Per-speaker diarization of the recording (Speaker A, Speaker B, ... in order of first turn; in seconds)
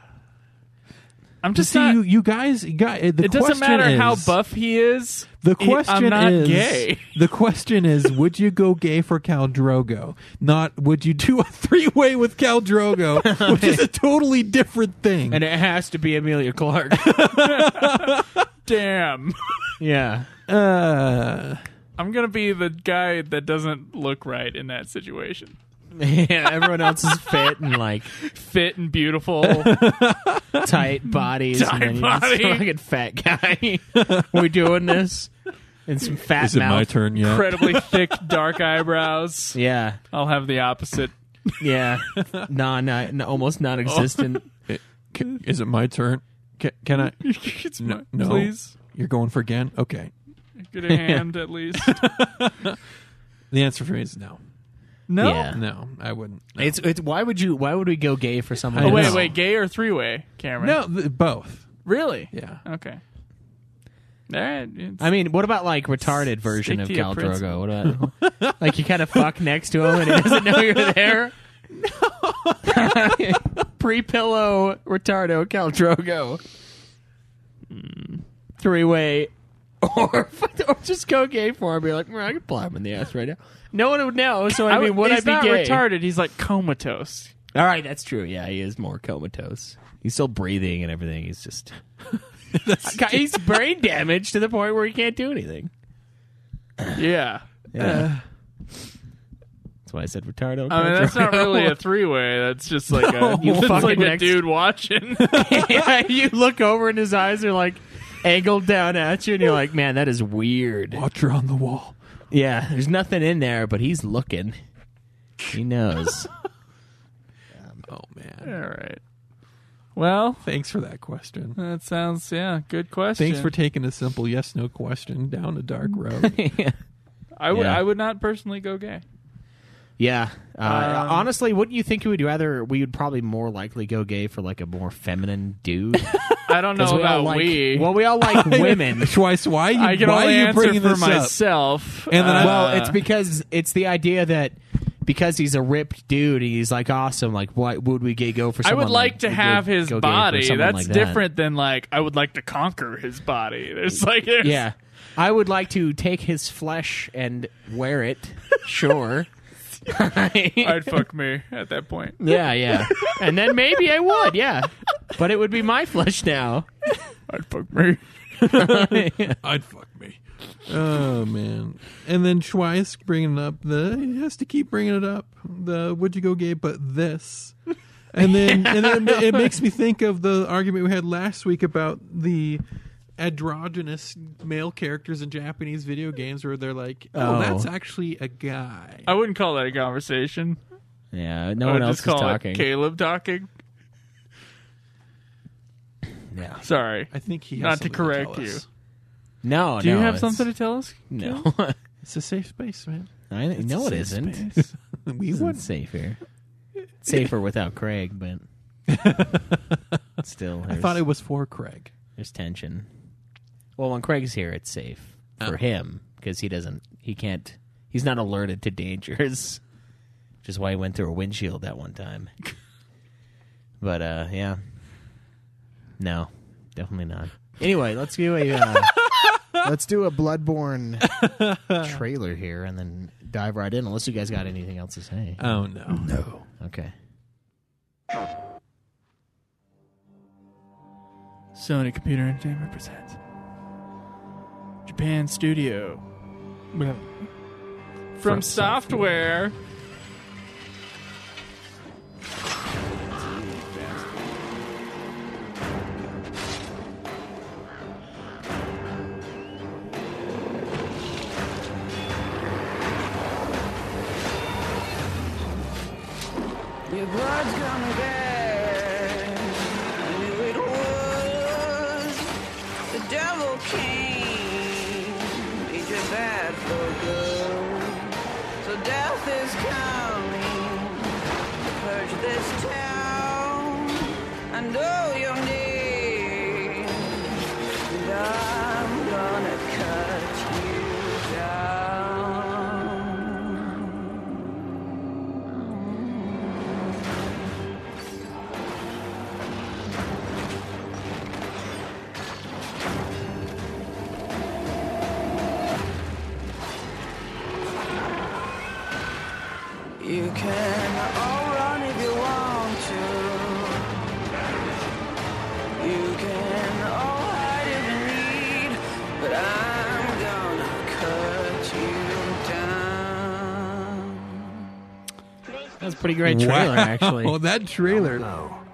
Speaker A: 1.4-2.0, 3.2-7.2, 17.3-19.7, 22.0-25.6, 27.1-27.5, 28.1-29.8, 31.1-32.6, 37.1-39.6, 40.1-41.1, 43.9-44.4, 47.0-48.8, 50.6-52.0, 55.1-55.5, 58.8-60.8, 61.9-63.0, 64.3-65.1, 66.5-67.6, 77.7-78.2, 84.6-87.3, 97.0-97.4, 100.7-105.4, 118.4-119.0, 120.0-120.5, 121.6-123.5, 127.4-129.0, 130.6-131.3, 136.5-137.9, 139.8-143.0, 148.6-154.6, 160.6-163.2, 167.1-168.0, 189.1-190.6, 191.6-193.5, 196.6-198.6, 199.8-201.5, 203.9-204.7, 235.9-236.4, 241.6-243.2, 244.8-246.0, 248.2-249.6
Speaker B: 1.5-4.4, 5.4-15.4, 17.0-18.4, 20.5-21.6, 29.4-30.7, 34.0-34.8, 36.4-38.4, 44.7-47.2, 47.8-50.1, 51.8-52.8, 53.5-54.4, 55.5-56.8, 58.7-59.3, 60.6-61.7, 62.3-62.6, 67.9-69.3, 69.8-71.1, 71.7-73.5, 92.5-93.6, 97.8-98.2, 102.9-104.2, 105.3-105.9, 110.9-112.0, 117.9-118.5, 120.4-121.6, 123.2-126.4, 138.2-141.4, 142.1-142.7, 168.5-177.6, 178.1-182.6, 183.2-189.1, 197.1-198.7, 202.0-205.7, 208.9-209.8, 210.7-211.9, 231.1-232.0, 235.4-236.2, 248.2-249.2, 326.2-328.3
Speaker C: 13.2-13.8, 15.3-17.3, 19.8-20.3, 25.9-28.1, 30.6-35.3, 35.9-36.9, 39.5-40.0, 41.6-44.5, 50.9-51.2, 55.2-55.6, 56.6-59.3, 65.0-71.3, 72.7-76.4, 78.6-85.8, 87.5-91.8, 92.8-95.7, 97.7-98.1, 99.9-101.8, 103.4-104.5, 105.3-111.0, 112.3-114.6, 115.5-116.3, 117.6-117.9, 126.2-126.8, 127.5-127.8, 130.0-136.2, 136.8-139.2, 142.3-151.2, 154.4-159.3, 159.9-161.0, 162.2-166.7, 168.4-169.4, 178.2-179.5, 187.2-187.7, 191.1-192.7, 196.3-196.6, 199.4-200.5, 201.1-201.8, 203.3-204.5, 205.3-206.2, 207.0-208.5, 210.2-211.0, 212.2-212.9, 213.8-219.6, 220.4-222.3, 223.8-224.6, 226.0-231.2, 231.8-235.5, 236.5-236.9, 325.8-327.4
Speaker D: 266.9-272.3, 272.9-294.1, 295.7-296.6, 310.0-314.1, 315.8-324.6